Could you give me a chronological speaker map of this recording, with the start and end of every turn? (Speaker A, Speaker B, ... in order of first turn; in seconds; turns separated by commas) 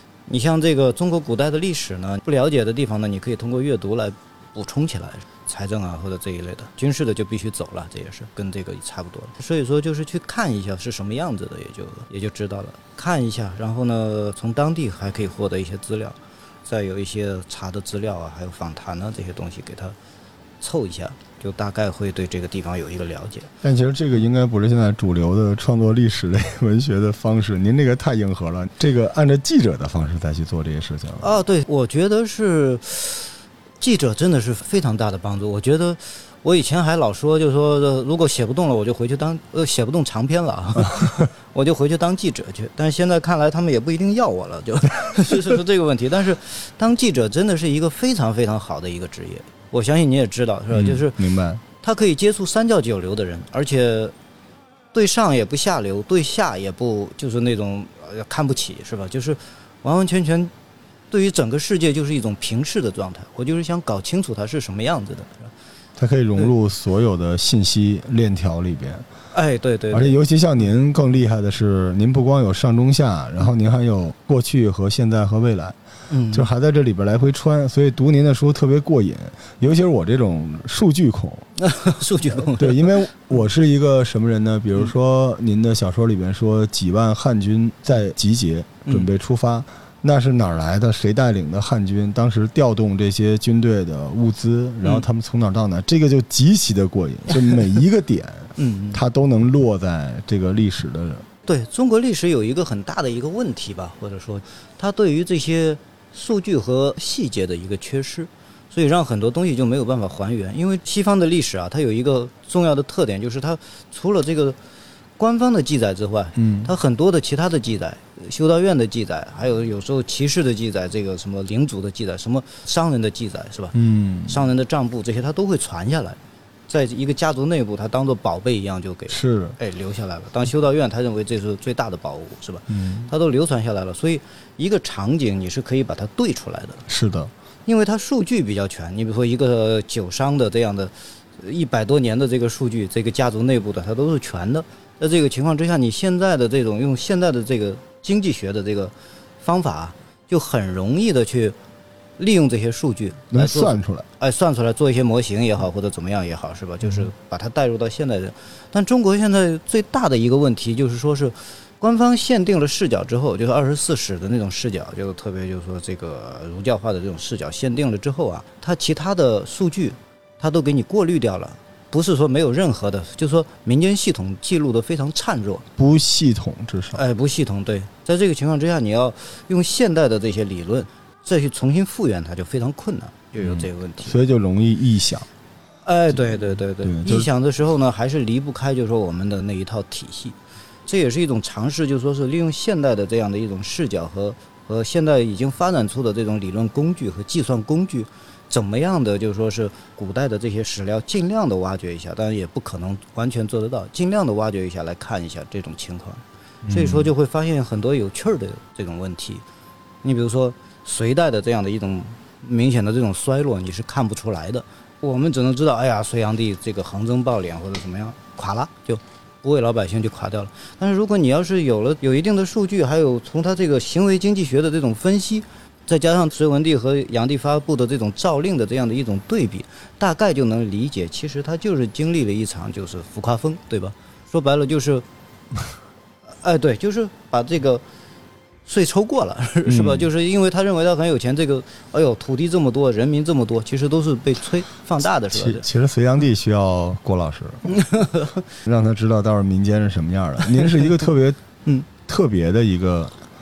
Speaker A: 0.3-19.9, Speaker A: 20.6-23.5, Speaker B: 23.6-31.3, Speaker A: 31.2-51.2, Speaker B: 40.9-41.2, Speaker B: 45.0-45.4, Speaker B: 50.7-51.6, Speaker A: 51.8-54.1, Speaker A: 54.9-60.5, Speaker A: 61.1-65.5, Speaker B: 66.0-69.0, Speaker A: 69.3-70.2, Speaker B: 69.9-75.8, Speaker A: 76.1-76.5, Speaker B: 76.3-81.5, Speaker A: 81.6-83.0, Speaker B: 82.3-101.2, Speaker A: 98.6-99.0, Speaker A: 101.5-114.6, Speaker A: 115.2-123.7, Speaker B: 116.3-116.7, Speaker B: 123.7-124.4, Speaker A: 124.3-136.8, Speaker B: 129.1-129.6, Speaker B: 132.7-133.1, Speaker B: 136.9-137.3, Speaker A: 137.7-151.6, Speaker A: 152.2-175.7, Speaker B: 153.3-154.1, Speaker B: 156.8-157.1, Speaker B: 175.8-177.0, Speaker A: 176.9-184.2, Speaker B: 183.4-185.3, Speaker A: 185.8-209.4, Speaker B: 186.8-187.3, Speaker B: 206.6-207.1, Speaker A: 210.0-235.1, Speaker A: 236.4-237.8, Speaker A: 238.7-245.7, Speaker B: 239.7-240.1, Speaker B: 245.3-247.6, Speaker A: 247.7-248.4, Speaker B: 248.6-251.4, Speaker B: 252.0-253.1